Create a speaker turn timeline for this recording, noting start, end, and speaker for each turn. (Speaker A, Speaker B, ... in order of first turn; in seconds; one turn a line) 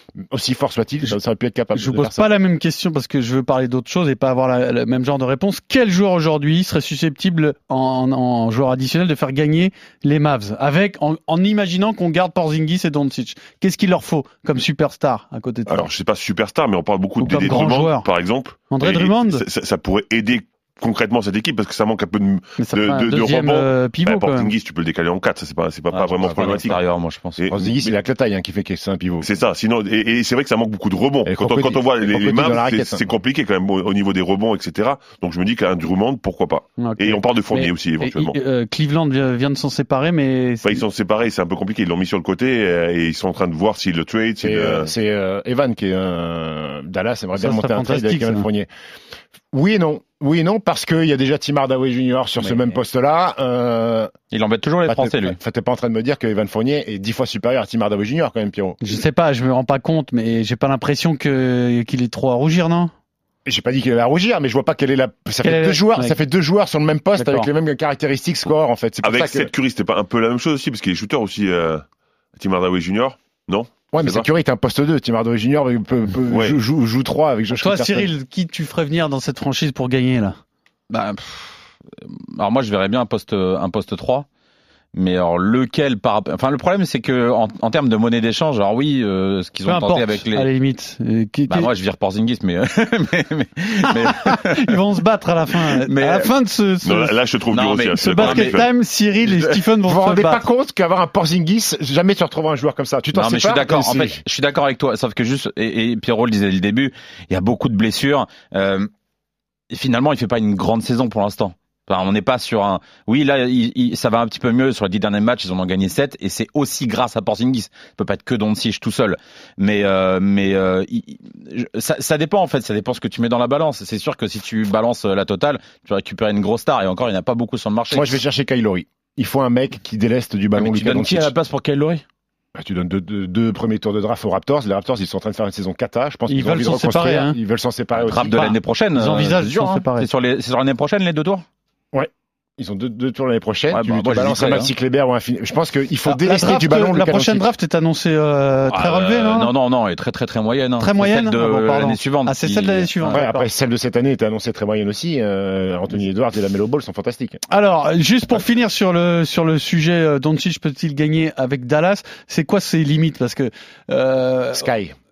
Speaker A: 0.3-2.3
Speaker B: 1.8-15.9
Speaker C: 15.7-26.8
Speaker B: 17.2-18.1
Speaker B: 18.7-19.4
Speaker B: 22.6-24.5
Speaker D: 25.9-27.7
Speaker A: 26.2-26.6
Speaker C: 27.4-27.9
Speaker A: 27.5-29.3
Speaker C: 29.2-38.3
Speaker A: 31.2-33.0
Speaker B: 36.8-40.8
Speaker C: 40.6-44.9
Speaker A: 44.4-48.7
Speaker B: 47.4-48.5
Speaker A: 49.5-54.1
Speaker D: 54.3-55.4
Speaker A: 54.8-58.8
Speaker B: 58.8-62.9
Speaker A: 63.5-69.5
Speaker B: 65.4-66.2
Speaker B: 67.2-67.5
Speaker C: 69.0-71.8
Speaker C: 72.4-74.3
Speaker A: 73.9-78.1
Speaker C: 76.3-76.5
Speaker B: 77.6-80.4
Speaker D: 80.9-84.2
Speaker D: 84.9-90.5
Speaker B: 89.6-91.7
Speaker D: 91.5-94.8
Speaker B: 94.2-97.1
Speaker D: 95.8-96.3
Speaker C: 96.8-98.7
Speaker D: 97.5-98.7
Speaker B: 98.0-100.4
Speaker A: 99.9-104.2
Speaker D: 103.1-108.9
Speaker D: 109.7-128.1
Speaker A: 127.9-131.3
Speaker D: 130.5-132.0
Speaker A: 132.5-138.5
Speaker B: 136.3-137.4
Speaker D: 138.0-141.4
Speaker B: 138.3-140.1
Speaker A: 141.9-147.5
Speaker D: 143.7-144.7
Speaker B: 146.1-149.5
Speaker D: 148.7-153.2
Speaker B: 150.8-153.5
Speaker A: 153.1-157.4
Speaker B: 157.5-164.7
Speaker A: 164.5-164.9